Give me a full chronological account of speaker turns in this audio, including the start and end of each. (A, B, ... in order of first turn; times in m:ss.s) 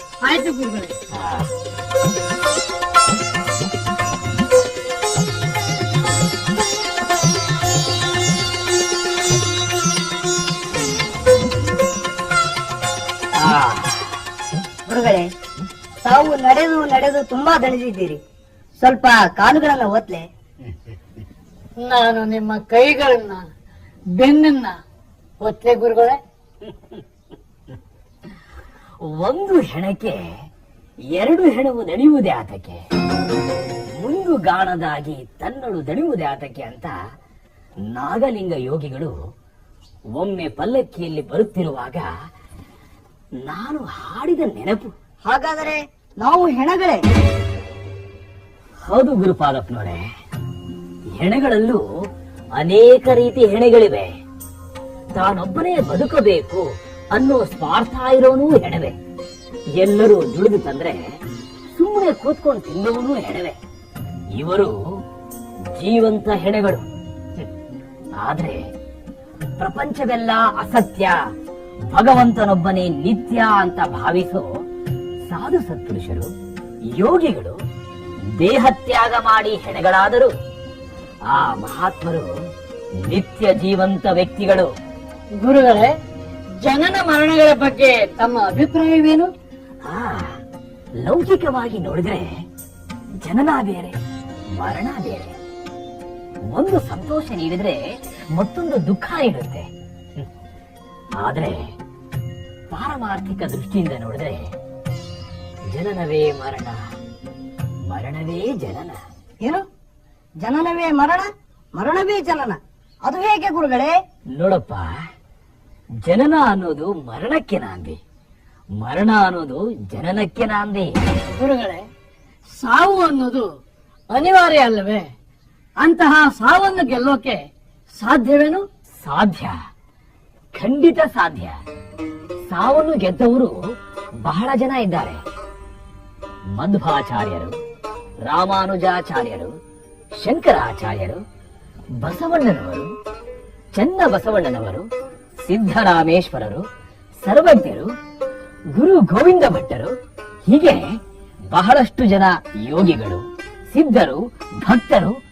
0:00.2-0:00.9 A
0:01.1-0:01.5 B
0:13.4-0:14.1 B
0:14.9-0:15.3 C
0:16.0-0:18.2 C
0:18.8-0:20.3 C
0:21.8-0:23.4 A
0:24.2-0:24.8 A
0:25.4-0:26.2 A
0:29.0-0:30.2 B
0:31.1-0:32.8 B
0:34.0-0:36.9 B
0:37.9-0:39.1 B
0:40.2-0:42.1 B
0:43.4-0:44.9 B
0:45.3-0:47.0 C
0:48.9-0:50.0 B
0:51.2-0:51.8 B
0:52.6-0:54.1 B
0:55.1-0:59.0 B
0:59.8-1:01.0 B
1:01.8-1:03.6 B
1:04.4-1:04.8 B
1:05.8-1:06.8 B
1:08.2-1:08.6 B
1:09.6-1:11.1 B
1:11.9-1:14.5 B
1:15.2-1:16.3 B
1:16.9-1:17.6 B
1:18.4-1:20.3 B
1:21.3-1:22.3 B
1:23.0-1:24.7 B
1:25.4-1:25.9 A
1:26.6-1:29.3 A
1:29.8-1:30.3 B
1:31.0-1:32.3 B
1:33.2-1:34.0 B
1:34.6-1:35.3 B
1:36.5-1:37.8 B
1:38.3-1:39.7 B
1:41.2-1:41.7 B
1:42.7-1:44.5 B
1:45.7-1:46.8 B
1:47.9-1:49.0 B
1:50.4-1:53.9 C
1:54.3-1:54.9 B
1:56.0-1:58.0 B
1:58.8-2:00.9 B
2:01.3-2:01.8 A
2:02.6-2:03.5 A
2:04.1-2:05.1 A
2:05.8-2:07.4 A
2:08.0-2:08.6 A
2:09.0-2:09.6 B
2:10.6-2:11.6 B
2:12.5-2:13.6 B
2:14.2-2:15.2 B
2:16.6-2:17.6 B
2:18.2-2:19.5 B
2:20.2-2:21.2 B
2:22.0-2:22.9 B
2:23.8-2:24.9 B
2:25.4-2:26.6 B
2:27.2-2:27.9 B
2:28.8-2:29.9 B
2:30.5-2:30.8 B
2:31.5-2:35.1 B